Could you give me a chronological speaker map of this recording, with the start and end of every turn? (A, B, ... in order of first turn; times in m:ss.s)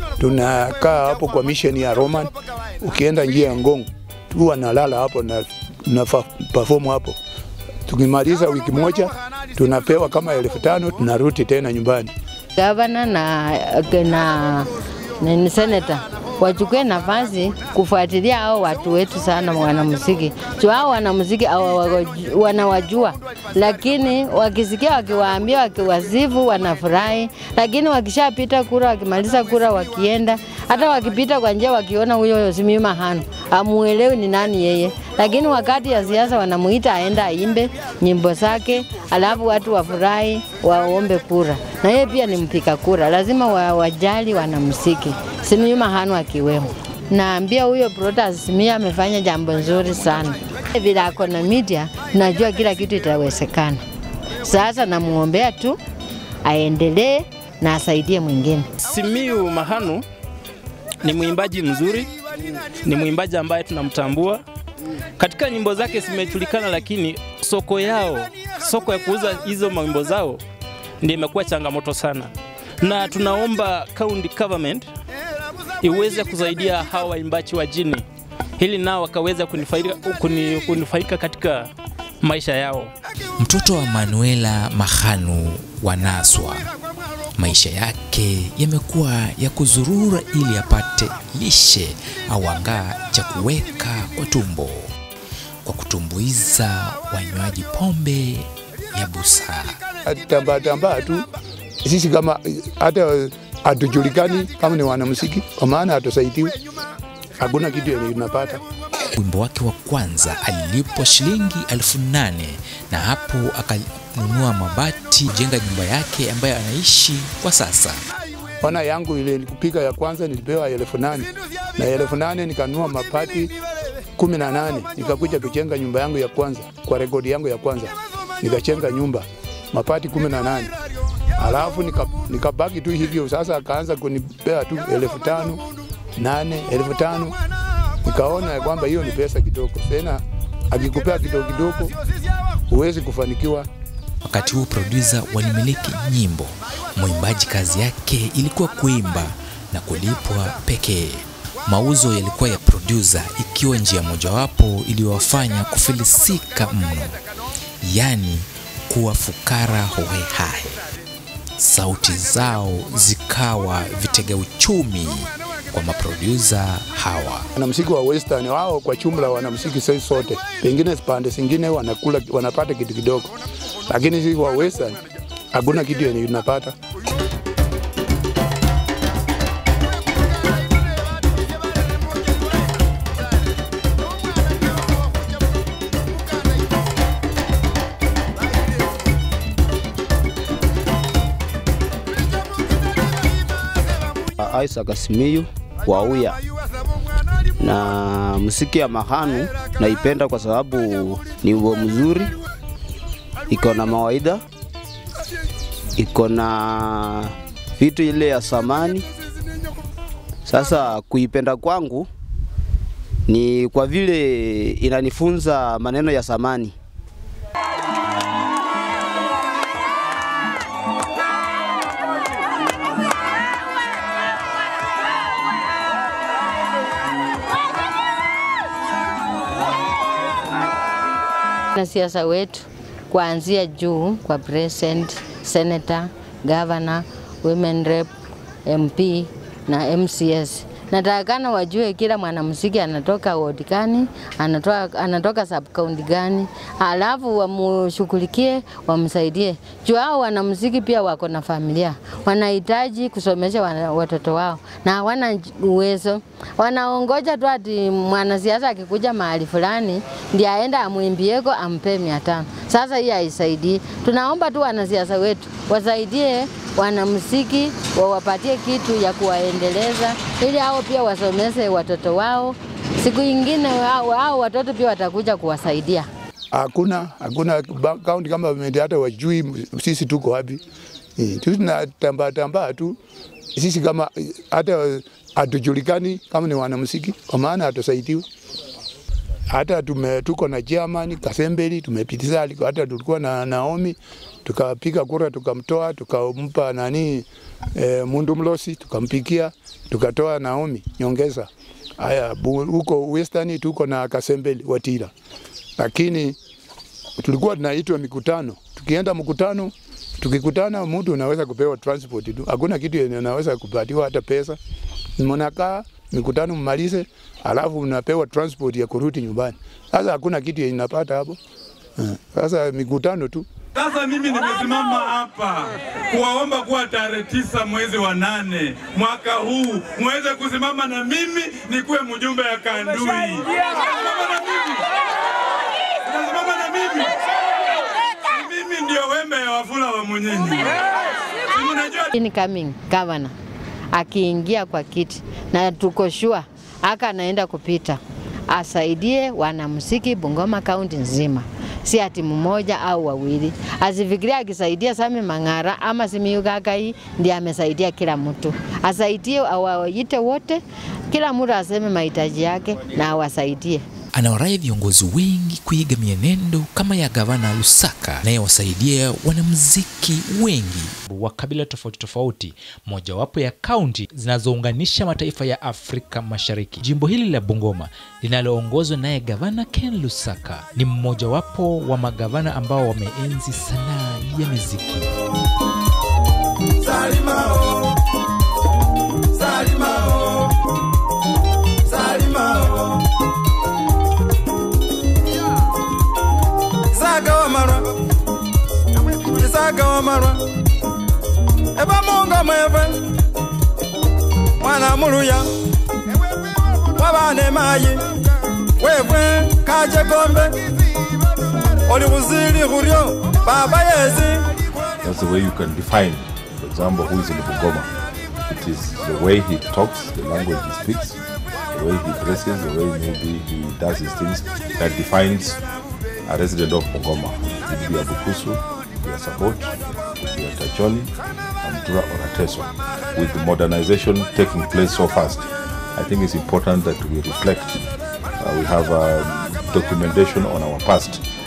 0:00.2-0:07.2 A
0:07.9-0:12.1 A
0:12.6-0:53.8 B
0:54.4-0:55.8 B
0:56.4-0:58.7 B
0:58.8-1:00.0 C
1:01.0-1:02.1 C
1:02.8-1:04.4 C
1:05.2-1:10.4 C
1:11.0-1:14.9 C
1:15.8-1:18.0 C
1:18.6-1:21.7 C
1:22.2-1:22.9 C
1:23.4-1:26.6 D
1:27.4-1:34.9 D
1:35.6-1:39.8 D
1:40.0-1:41.3 A
1:41.8-1:46.5 A
1:47.4-1:48.6 A
1:49.1-1:58.0 D
1:58.6-2:03.5 A
2:04.2-2:10.7 A
2:11.4-2:15.6 A
2:16.2-2:17.4 A
2:18.0-2:21.9 A
2:22.7-2:23.7 A
2:24.2-2:37.2 D
2:37.8-2:40.8 D
2:41.6-2:47.5 D
2:47.6-2:53.3 A
2:53.9-2:55.0 A
2:55.5-2:56.7 A
3:14.4-3:16.4 E
3:17.6-3:22.3 E
3:23.5-3:24.4 E
3:26.0-3:29.0 E
3:30.4-3:32.1 E
3:33.3-3:36.7 E
3:51.7-3:58.1 B
3:58.6-4:36.1 B
4:36.5-4:40.6 A
4:41.2-4:43.0 A
4:43.5-4:48.2 A
4:49.5-5:05.1 A
5:05.8-5:06.4 A
5:07.2-5:14.6 A
5:15.2-5:21.4 A
5:22.0-5:23.4 A
5:23.7-5:34.8 F
5:36.0-5:37.2 F
5:38.3-5:40.8 F
5:41.5-5:42.1 F
5:42.1-5:43.3 B
5:43.9-6:03.8 B
6:04.1-6:25.1 D
6:26.8-6:27.7 G
6:29.4-6:30.4 G
6:31.9-6:32.8 G
6:36.9-6:37.9 G
6:39.2-6:40.4 G
6:41.8-6:43.0 G
6:44.6-6:45.5 G
6:46.9-6:48.0 G
6:48.8-6:50.6 G
6:51.9-6:54.4 G
6:55.0-6:57.9 H
6:58.5-7:01.2 H
7:01.7-7:05.6 H
7:06.3-7:11.1 H
7:11.6-7:17.8 H
7:18.4-7:21.2 H